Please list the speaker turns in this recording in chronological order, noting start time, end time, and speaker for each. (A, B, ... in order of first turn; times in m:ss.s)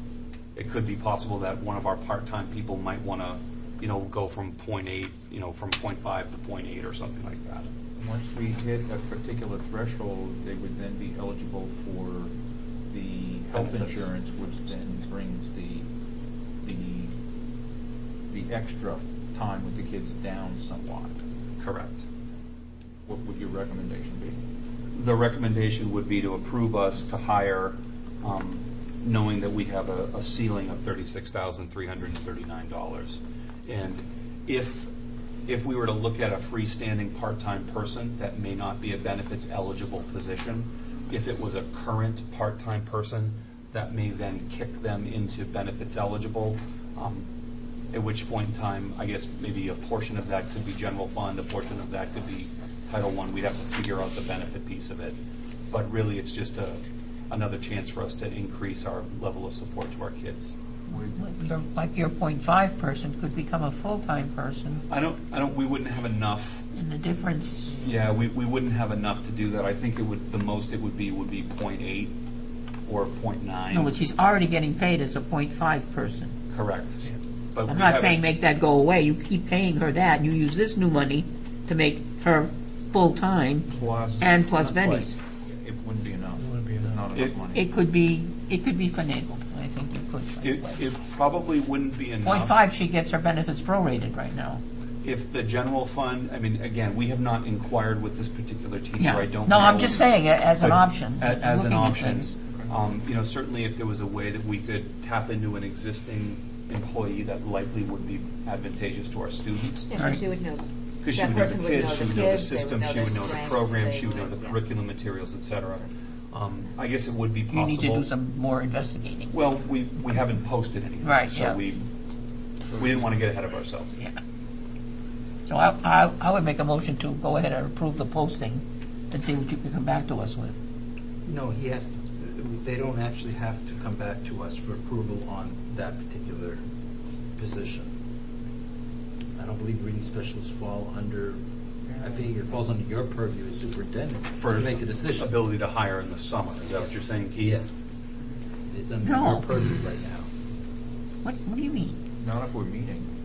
0:00.6-0:07.7 A
0:08.0-0:12.3 B
0:12.9-0:15.9 B
0:13.5-0:14.1 A
0:16.6-0:17.1 B
0:18.3-0:21.2 B
0:21.6-0:22.1 A
0:23.1-0:24.4 B
0:24.9-0:34.9 A
0:35.5-0:47.3 A
0:47.9-0:55.2 A
0:55.7-1:00.6 A
1:00.9-1:01.2 B
1:01.1-1:04.8 C
1:04.9-1:06.6 A
1:06.7-1:07.8 C
1:07.8-1:12.1 A
1:12.9-1:14.0 A
1:13.7-1:16.4 C
1:16.5-1:18.2 A
1:17.7-1:25.2 C
1:23.7-1:24.6 B
1:25.5-1:27.7 B
1:27.1-1:27.4 A
1:27.5-1:30.8 C
1:30.4-1:32.6 A
1:32.2-1:34.6 C
1:35.0-1:50.2 A
1:39.0-1:42.3 C
1:49.9-1:54.6 D
1:49.9-1:50.2 C
1:51.0-1:58.1 A
1:57.5-1:59.3 C
1:59.3-2:01.9 A
2:01.0-2:01.6 C
2:02.7-2:04.0 A
2:05.5-2:10.6 C
2:11.3-2:16.6 E
2:17.4-2:17.9 E
2:19.4-2:21.4 E
2:22.0-2:25.3 E
2:24.4-2:27.6 A
2:26.8-2:27.8 E
2:28.7-2:30.3 E
2:29.0-2:29.5 C
2:31.2-2:32.0 C
2:32.2-2:33.1 B